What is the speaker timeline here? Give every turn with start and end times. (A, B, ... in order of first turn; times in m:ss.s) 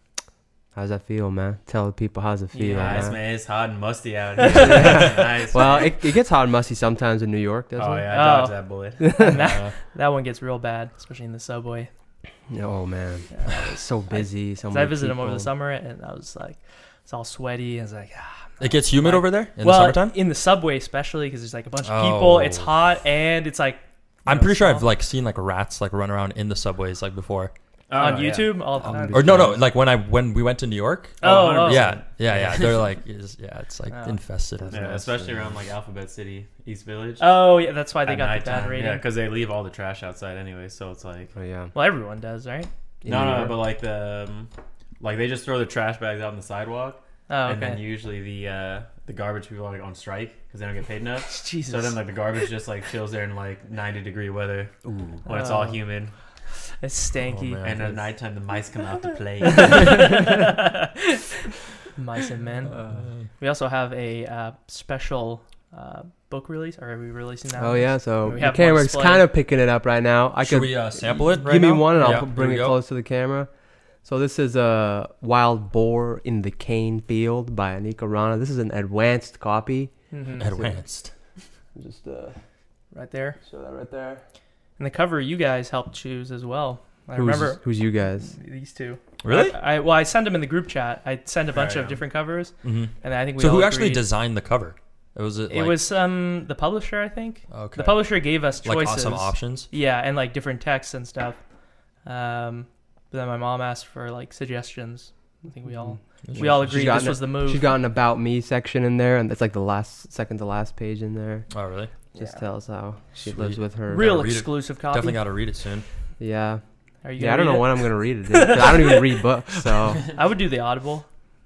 0:00.7-0:03.2 A
0:02.5-0:03.1 B
0:02.7-0:06.0 C
0:04.4-0:08.1 A
0:07.8-0:09.7 C
0:08.1-0:11.9 B
0:09.0-0:09.5 A
0:12.5-0:15.5 A
0:13.3-0:24.8 B
0:18.6-0:20.2 D
0:21.8-0:22.7 D
0:24.2-0:27.5 D
0:27.9-0:28.8 C
0:28.0-0:29.6 B
0:28.8-0:29.6 A
0:28.8-0:35.1 D
0:31.2-0:32.0 B
0:31.2-0:32.8 C
0:33.9-0:34.2 B
0:34.6-0:35.3 A
0:34.7-0:37.4 C
0:37.2-0:39.0 B
0:38.0-0:41.3 C
0:41.3-0:41.7 A
0:41.7-0:42.7 B
0:43.0-0:43.6 A
0:43.0-0:56.2 C
0:47.3-0:47.8 B
0:51.3-0:52.0 B
0:54.8-0:55.2 A
0:55.2-0:55.9 B
0:56.5-0:57.7 B
0:57.2-0:58.1 D
0:57.6-1:00.2 C
0:59.4-1:01.2 B
1:01.9-1:02.8 B
1:02.6-1:03.3 D
1:02.7-1:03.1 A
1:03.3-1:09.3 B
1:07.6-1:20.8 A
1:10.4-1:12.8 D
1:20.1-1:20.5 B
1:20.4-1:21.1 D
1:21.8-1:22.4 A
1:22.9-1:23.4 B
1:23.4-1:24.2 A
1:24.8-1:27.7 B
1:27.1-1:28.3 A
1:28.2-1:34.0 B
1:29.2-1:29.6 D
1:31.5-1:32.0 C
1:32.6-1:35.9 D
1:35.5-1:41.4 B
1:37.5-1:39.7 D
1:42.0-1:47.6 B
1:45.7-1:51.5 A
1:46.2-1:47.0 D
1:51.5-1:51.9 D
1:52.1-1:54.2 A
1:52.1-1:52.4 B
1:53.2-1:55.8 D
1:53.9-1:55.2 B
1:56.2-1:56.6 A
1:57.0-1:59.2 B
1:57.2-2:00.1 A
2:00.1-2:01.1 B